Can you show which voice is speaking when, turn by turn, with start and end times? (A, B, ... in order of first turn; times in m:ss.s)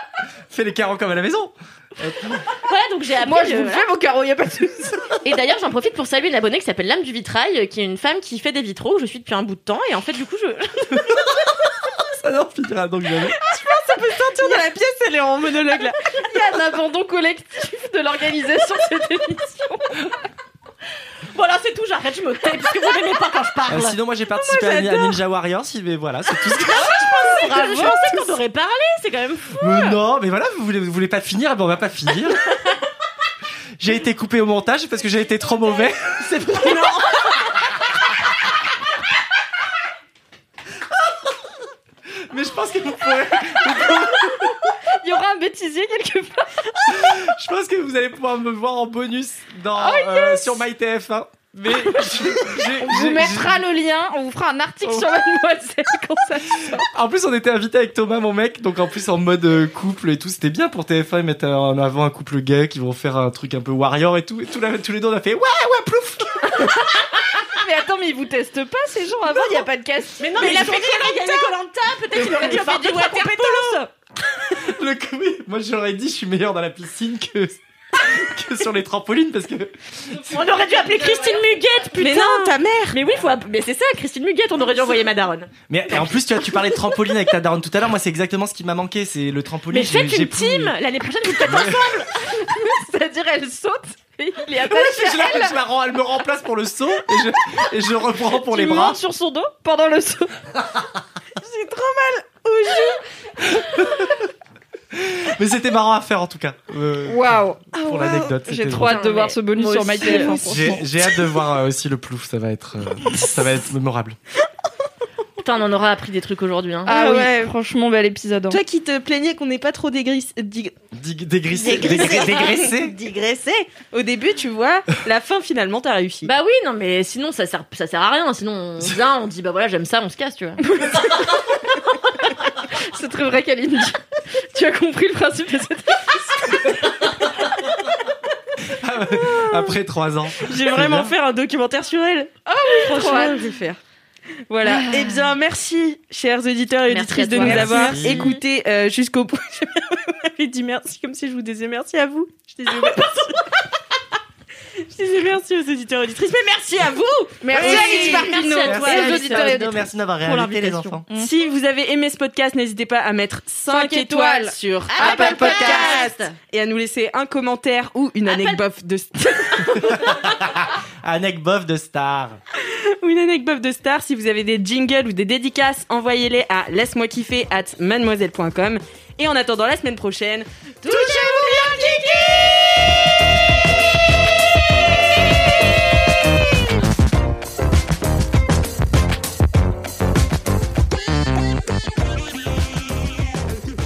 0:00.5-0:02.5 A
0:02.6-0:03.9 B
0:03.2-0:05.2 C
0:05.2-0:11.2 B
0:12.1-0:13.4 A
0:13.4-0:16.2 D
0:16.0-0:20.1 C
0:21.3-0:24.0 B
0:23.7-0:27.0 A
0:24.3-0:25.2 D
0:26.3-0:30.0 B
0:27.5-0:27.9 C
0:29.6-0:32.4 A
0:33.8-0:36.9 A
0:36.8-0:37.4 B
0:42.3-0:44.6 A
0:45.0-0:47.2 C
0:46.9-0:53.6 A
0:49.7-0:50.6 C
0:51.7-0:56.9 C
0:56.6-1:06.7 A
1:07.5-1:11.4 C
1:10.2-1:13.9 B
1:12.2-1:13.8 C
1:12.5-1:13.0 D
1:14.5-1:20.4 A
1:20.2-1:26.1 B
1:22.0-1:23.0 D
1:25.7-1:30.7 A
1:29.7-1:32.1 B
1:31.4-1:32.0 A
1:32.2-1:35.6 C
1:34.6-1:39.0 A
1:38.3-1:40.4 C
1:41.4-1:43.0 D
1:43.5-1:44.2 A
1:44.9-1:49.0 A
1:47.0-1:50.8 C
1:47.8-1:48.3 D
1:48.7-1:50.6 B
1:50.0-1:50.4 D
1:50.4-1:54.2 A
1:55.4-1:57.0 B
1:56.8-1:58.6 C
1:56.9-1:57.5 D
1:58.5-2:00.8 D
2:00.9-2:02.9 A
2:01.5-2:06.3 D
2:06.2-2:10.6 B
2:12.8-2:14.0 C
2:14.5-2:16.8 C
2:18.7-2:21.1 A
2:19.2-2:19.8 D
2:20.4-2:23.8 D
2:22.6-2:23.4 C
2:24.5-2:33.5 D
2:24.7-2:25.0 B
2:26.9-2:28.4 B
2:27.3-2:28.4 A
2:34.8-2:39.2 D
2:37.4-2:39.8 C
2:37.5-2:37.8 A
2:37.6-2:41.0 B
2:38.4-2:41.0 A
2:41.1-2:49.9 D
2:43.7-2:46.0 C
2:44.9-2:46.3 B
2:45.0-2:45.8 A
2:49.9-2:52.4 A
2:52.6-3:02.2 D